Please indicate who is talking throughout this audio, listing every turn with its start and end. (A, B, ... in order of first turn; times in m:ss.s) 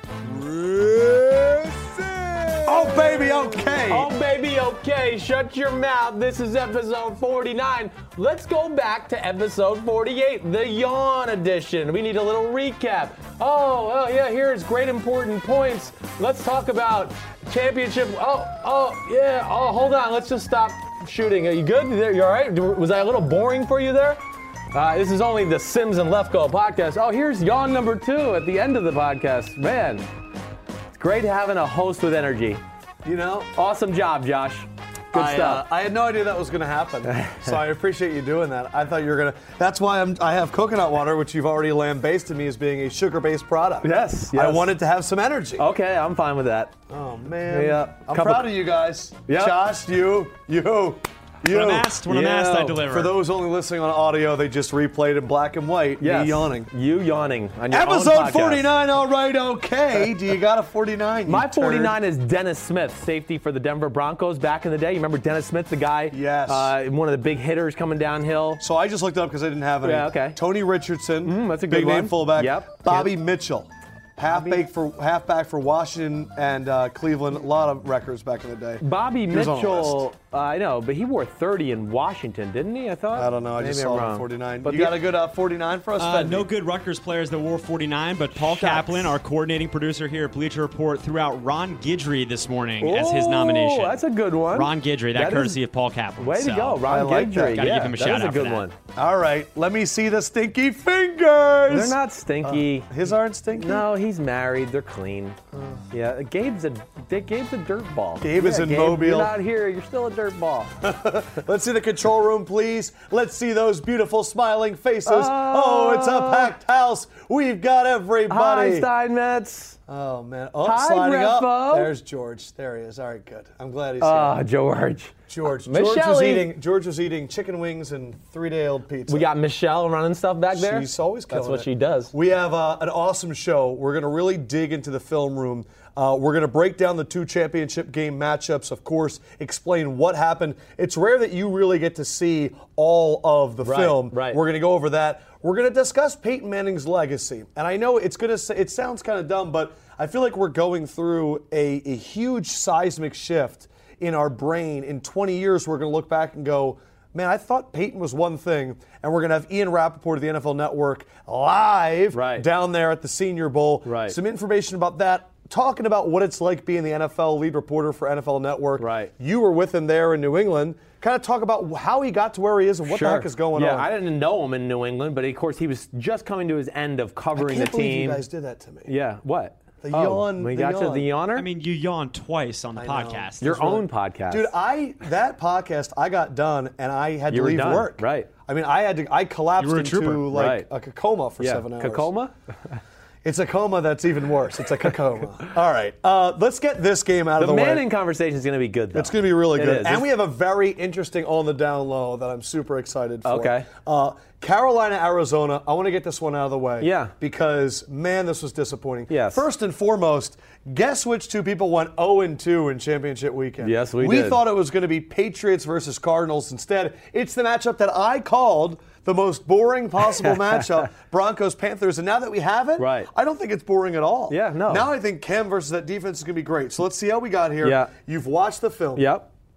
0:00.2-0:03.0 A
0:02.6-0:04.1 B
0:02.7-0:24.2 C
0:24.7-0:30.0 C
0:30.9-0:32.6 C
0:33.0-0:33.5 B
0:33.5-0:35.6 C
0:35.1-0:45.6 B
0:37.0-0:37.5 C
0:43.8-0:44.7 C
0:45.6-0:46.7 C
0:46.9-0:52.0 B
0:47.5-0:48.5 C
0:49.3-0:49.6 C
0:51.4-0:53.1 D
0:52.0-0:52.8 C
0:52.9-0:56.7 B
0:56.0-0:58.7 C
0:57.7-1:02.0 B
1:01.3-1:08.6 C
1:06.1-1:06.7 B
1:08.6-1:20.0 B
1:09.8-1:10.4 C
1:11.2-1:13.1 C
1:14.3-1:14.6 C
1:18.8-1:25.0 C
1:23.1-1:26.4 B
1:26.0-1:34.0 D
1:28.4-1:29.2 C
1:32.8-1:35.6 C
1:34.5-1:36.8 D
1:36.2-1:38.7 C
1:36.8-1:37.7 B
1:37.4-1:38.6 D
1:39.0-1:43.8 B
1:41.7-1:42.9 C
1:43.6-1:45.4 C
1:45.5-1:45.8 B
1:45.9-1:50.7 C
1:48.2-1:49.3 B
1:50.8-1:58.9 B
1:55.0-1:56.5 C
1:58.3-1:59.8 C
1:59.9-2:04.4 B
2:00.6-2:01.9 C
2:04.0-2:05.1 C
2:05.3-2:09.3 B
2:05.6-2:06.5 C
2:09.1-2:12.1 C
2:10.5-2:53.9 B
2:23.6-2:24.4 C
2:42.1-2:42.4 C
2:43.8-2:44.2 C
2:48.8-2:49.1 C
2:52.9-2:58.2 C
2:57.4-2:58.9 B
2:58.9-3:01.4 C
2:59.8-3:01.1 B
3:01.3-3:03.6 D
3:02.8-3:12.1 B
3:03.4-3:04.5 C
3:07.3-3:08.3 C
3:09.6-3:10.3 D
3:10.3-3:10.7 C
3:11.4-3:12.3 C
3:13.2-3:17.8 B
3:17.4-3:20.0 C
3:18.9-3:49.1 B
3:23.2-3:23.7 C
3:26.8-3:27.1 C
3:29.1-3:29.4 C
3:33.6-3:34.4 C
3:40.2-3:40.6 C
3:42.8-3:43.1 C
3:44.3-3:44.9 C
3:47.6-3:47.9 C
3:49.0-3:49.3 C